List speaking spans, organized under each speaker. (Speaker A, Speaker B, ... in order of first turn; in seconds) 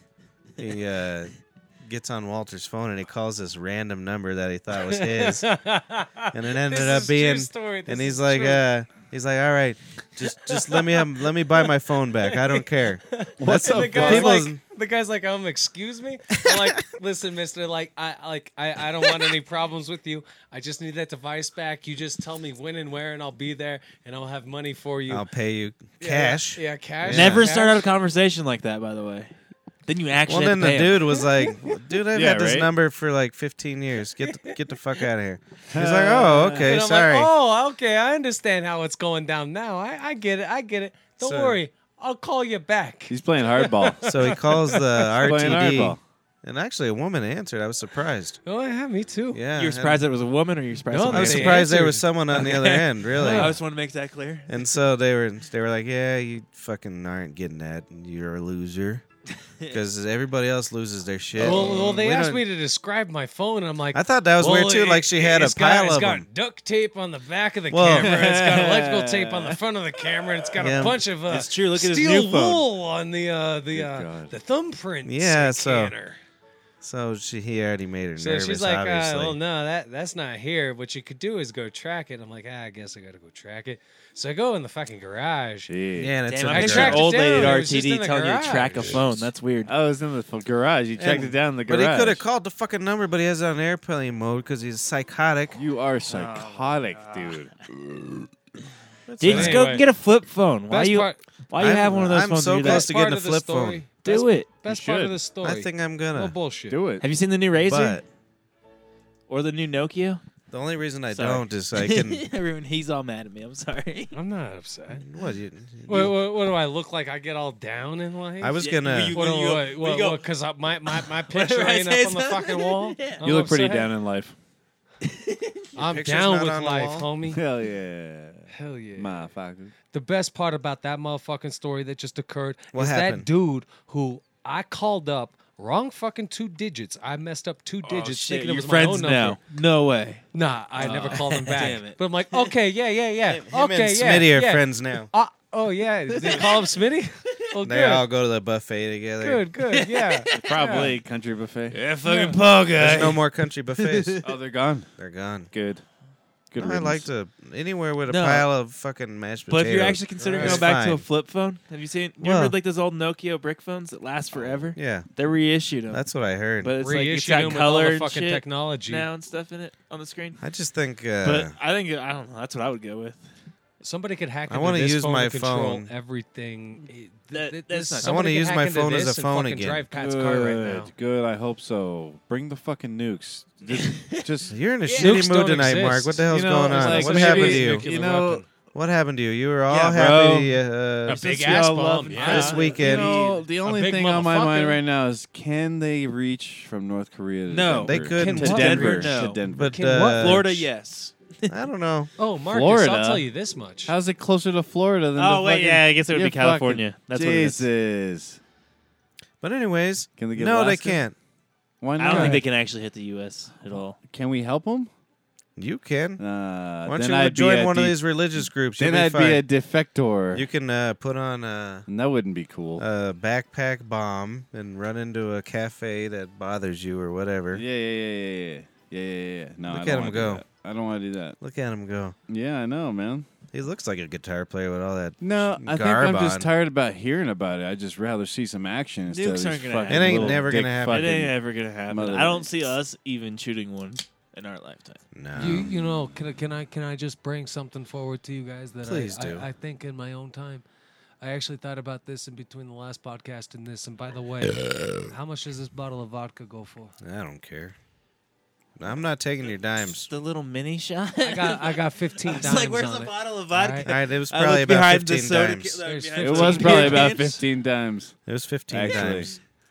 Speaker A: 0.6-5.5, 6.3-14.6, 25.1-27.5, 30.3-37.3, 41.2-41.6, 44.0-48.4, 49.3-50.0, 51.0-53.6, 54.5-59.0, 59.7-62.4, 63.9-66.3, 67.7-68.2, 70.6-71.0, 75.0-75.9, 76.8-79.4, 86.0-87.4, 91.0-95.6, 99.1-99.8, 101.6-103.8, 105.4-106.3, 107.5-108.0, 110.5-112.2, 114.9-116.2, 118.4-119.2, 125.8-127.1, 132.7-133.3, 143.3-145.1, 147.6-149.5, 152.8-154.2, 155.0-155.5, 156.6-161.1, 162.2-162.6, 164.7-165.1, 165.9-166.7, 170.4-171.5, 174.5-175.9, 178.0-179.9, 184.5-187.9, 188.7-191.2, 192.2-193.3, 197.8-200.7, 201.5-202.1, 209.4-211.2, 215.6-216.2, 216.8-219.4, 220.3-221.9, 222.8-227.6, 229.7-230.5, 231.4-232.2, 233.5-236.5, 239.9-241.3, 245.1-245.7, 248.8-249.5, 257.0-257.8, 258.8-260.1, 263.8-265.8, 268.3-269.4
Speaker B: 4.9-8.7, 10.4-11.1, 12.2-25.3, 26.0-27.9, 34.3-34.5, 36.6-45.1, 48.5-49.4, 50.9-52.0, 53.2-53.5, 61.4-76.2, 78.2-85.7, 86.5-89.0, 99.3-99.8, 100.7-101.2, 102.6-106.8, 114.1-115.0, 115.9-123.9, 125.8-127.4, 128.5-129.2, 129.9-139.4, 140.3-148.1, 149.2-150.9, 152.1-152.4, 160.2-160.6, 166.8-169.1, 173.8-180.9, 184.9-188.5, 191.1-194.8, 198.2-200.3, 202.2-203.9, 212.1-212.4, 245.3-250.6, 251.2-256.9, 261.2-263.9, 265.8-267.2
Speaker C: 13.4-14.4, 32.1-32.7, 35.7-36.7, 43.1-44.0, 45.2-46.0, 67.9-69.6, 73.7-74.3, 85.7-86.2, 89.7-92.2, 95.5-98.3, 104.7-105.2, 106.7-107.1, 123.2-124.3, 127.3-129.7, 140.8-141.2, 150.3-151.8, 154.2-154.9, 155.5-155.8, 156.5-157.1, 179.9-184.5, 186.3-188.4, 190.1-190.4, 192.3-200.0, 202.5-203.3, 203.9-208.4, 210.2-211.0, 211.8-212.4, 214.1-214.9, 216.2-218.0, 218.8-220.5, 221.9-222.8, 227.5-231.4, 232.3-233.3, 235.2-241.3, 241.9-242.7, 266.2-268.2, 268.7-269.4
Speaker D: 27.1-29.4, 29.9-31.2, 49.6-51.7, 52.3-54.6, 61.5-61.9, 71.3-72.6, 86.3-89.7, 96.1-97.5, 99.2-102.9, 104.0-104.5, 107.0-108.0, 109.3-110.2, 111.1-114.2, 118.6-120.2, 120.9-123.2, 125.0-125.6, 137.8-140.2, 140.8-142.5, 146.1-146.7, 149.7-151.0, 151.7-153.2, 153.8-154.3, 158.1-158.5, 159.5-166.1, 166.6-170.4, 171.2-173.3, 177.3-178.2, 183.7-184.2, 184.9-185.2, 189.7-190.5, 191.1-193.3, 197.5-199.4, 199.9-201.6, 205.2-207.7, 212.0-214.0, 239.1-245.0, 260.1-267.4